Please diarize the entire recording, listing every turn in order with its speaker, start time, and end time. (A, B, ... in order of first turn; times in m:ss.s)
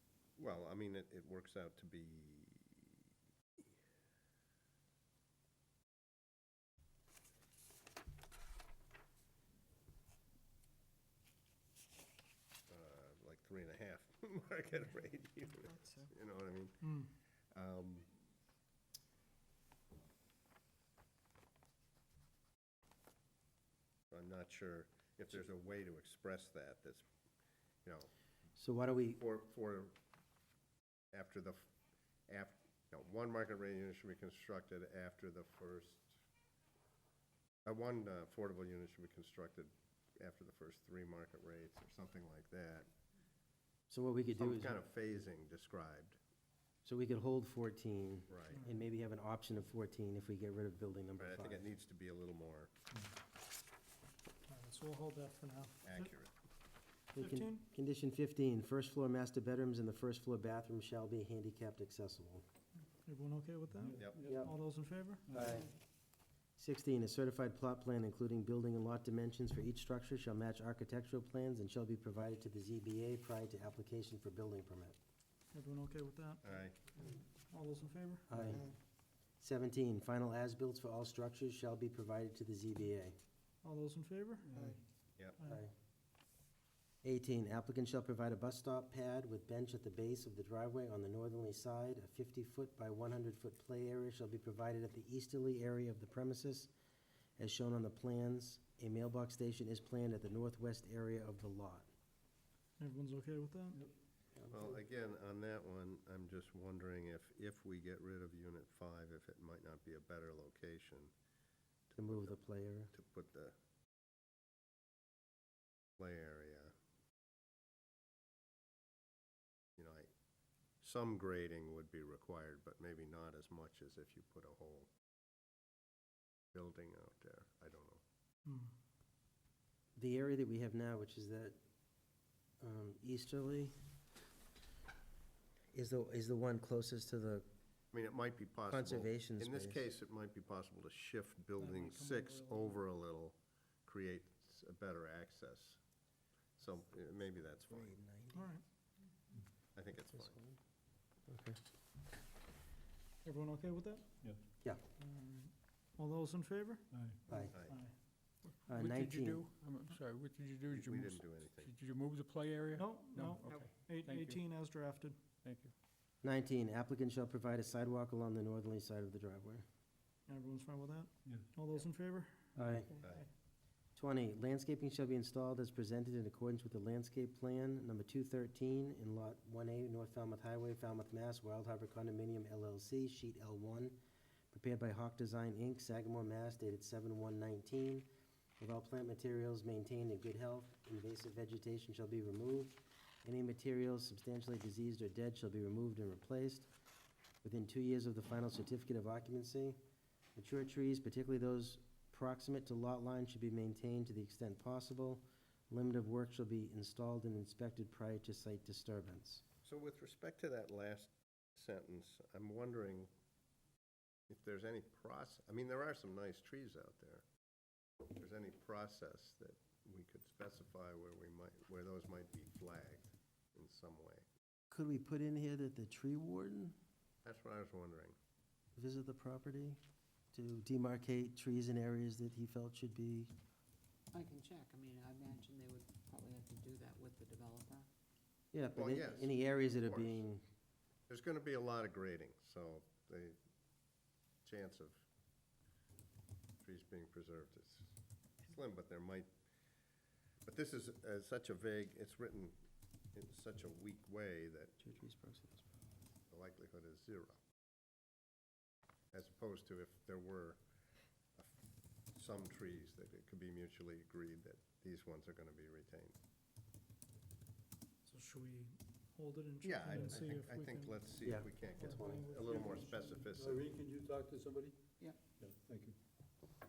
0:00.4-0:03.0 A
0:12.7-0:16.9 A
0:16.8-0:17.1 B
0:17.5-0:18.1 A
0:24.1-0:27.0 A
0:27.8-0:28.1 A
0:28.6-0:29.2 C
0:29.2-0:29.9 A
0:31.1-0:31.6 A
0:32.3-0:36.1 A
0:37.6-0:42.9 A
0:43.9-0:44.8 C
0:44.3-0:46.2 A
0:46.8-0:51.7 C
0:48.3-0:48.6 A
0:48.5-0:48.8 B
0:51.2-0:52.7 A
0:54.5-0:56.1 B
0:55.8-0:56.3 A
0:57.2-1:02.4 C
0:57.2-0:57.6 B
1:03.0-1:05.4 B
1:04.0-1:04.3 A
1:04.1-1:04.3 D
1:04.2-1:04.5 C
1:05.3-1:05.6 C
1:06.6-1:15.0 C
1:15.5-1:18.4 B
1:16.4-1:16.8 A
1:18.3-1:18.6 C
1:19.4-1:23.2 C
1:23.6-1:24.6 B
1:24.4-1:24.8 E
1:25.4-1:25.6 B
1:25.4-1:25.7 C
1:27.0-1:36.7 C
1:37.4-1:41.9 C
1:42.8-1:43.8 B
1:44.5-1:51.1 A
1:51.9-1:52.4 A
1:52.0-1:52.9 C
1:52.9-1:53.5 A
1:56.0-1:56.7 A
1:59.8-2:00.1 A
2:00.8-2:04.9 A
2:06.5-2:08.0 A
2:08.4-2:08.7 B
2:10.0-2:11.6 C
2:12.6-2:13.8 C
2:15.7-2:17.5 C
2:17.9-2:25.8 A
2:18.7-2:19.8 C
2:21.6-2:22.8 B
2:26.6-2:28.0 A
2:27.7-2:28.4 C
2:28.3-2:28.6 B
2:29.7-2:30.4 A
2:30.2-2:30.6 C
2:31.3-2:31.6 C
2:33.2-2:34.1 B
2:35.0-2:36.8 B
2:36.9-2:37.2 E
2:37.3-2:37.5 C
2:37.5-2:38.0 B
2:37.5-2:37.8 A
2:38.7-2:39.4 C
2:38.7-2:44.4 D
2:40.7-2:41.7 A
2:42.7-2:45.2 B
2:45.4-2:45.7 D
2:46.2-2:49.6 C
2:50.3-2:53.2 B
2:52.6-2:52.9 C
2:54.0-3:04.0 C
3:04.5-3:08.1 C
3:08.6-3:16.7 C
3:17.4-3:19.8 C
3:20.4-3:29.4 C
3:29.6-3:33.1 A
3:34.3-3:37.2 A
3:38.1-3:44.2 A
3:44.7-3:46.8 C
3:47.2-3:48.2 A
3:48.8-3:49.8 C
3:50.3-3:53.3 C
3:54.1-3:57.8 F
3:58.5-4:00.4 C
3:58.7-4:00.3 A
4:01.1-4:03.4 A
4:04.4-4:05.0 A
4:06.6-4:09.3 A
4:10.4-4:12.6 A
4:13.1-4:14.8 A
4:14.8-4:15.7 C
4:16.3-4:17.4 A
4:19.1-4:20.6 A
4:22.1-4:26.2 A
4:28.0-4:33.4 B
4:29.6-4:33.6 A
4:29.9-4:30.1 E
4:31.2-4:32.2 C
4:33.4-4:34.4 E
4:34.0-4:34.7 D
4:35.4-4:35.9 E